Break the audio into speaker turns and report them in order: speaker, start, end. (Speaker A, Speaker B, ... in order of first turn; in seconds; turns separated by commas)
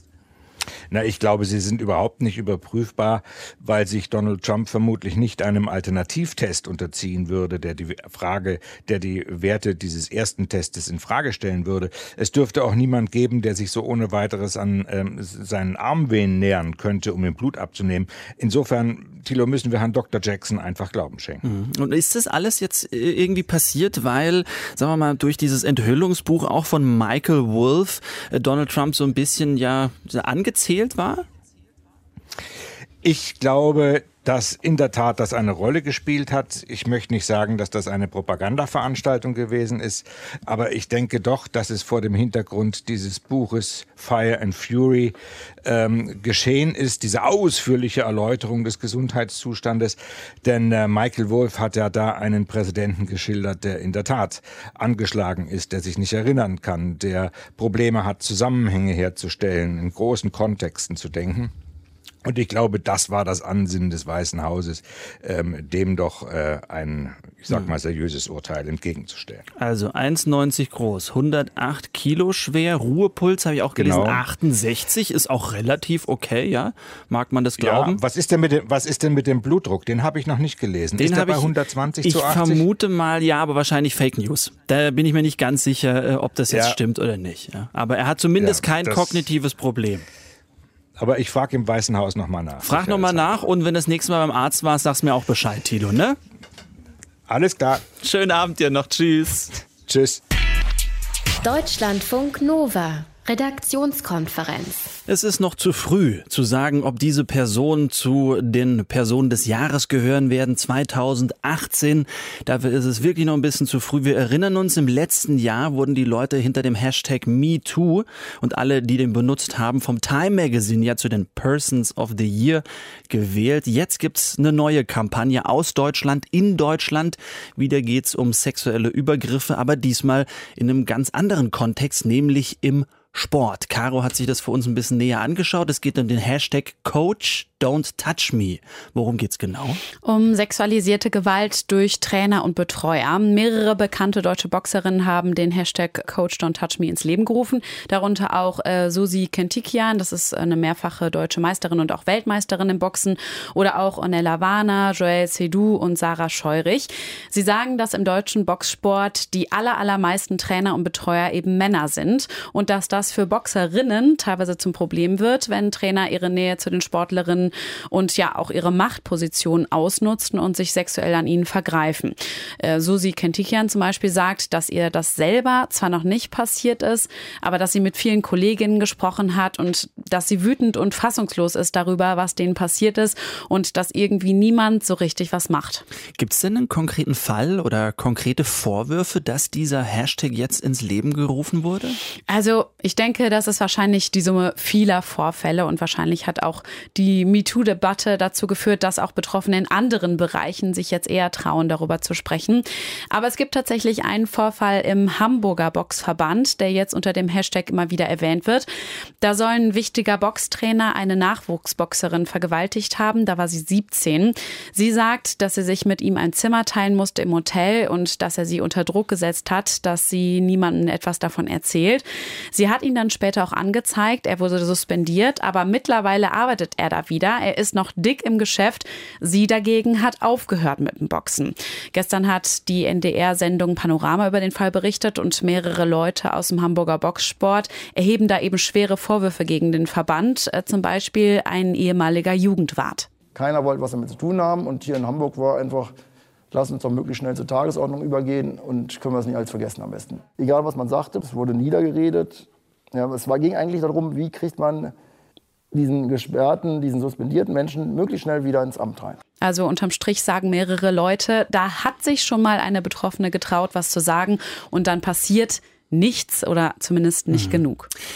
Speaker A: 0.9-21.4, Speaker B: 21.4-31.2, Speaker A: 33.0-61.5, Speaker A: 62.2-69.5, Speaker B: 69.6-78.0, Speaker A: 73.7-74.2, Speaker A: 77.6-82.7, Speaker B: 81.0-90.0, Speaker A: 86.5-86.8, Speaker A: 88.3-89.3, Speaker A: 91.0-93.5, Speaker B: 92.6-96.2, Speaker A: 97.3-97.8, Speaker B: 98.0-99.6, Speaker A: 99.8-100.2, Speaker C: 101.4-105.0, Speaker B: 105.1-139.8, Speaker D: 140.0-185.8, Speaker B: 186.2-192.0, Speaker D: 192.3-208.7, Speaker D: 209.2-243.1, Speaker E: 243.3-245.9, Speaker E: 246.5-254.9, Speaker E: 255.7-259.2, Speaker D: 259.4-267.9, Speaker B: 267.3-267.6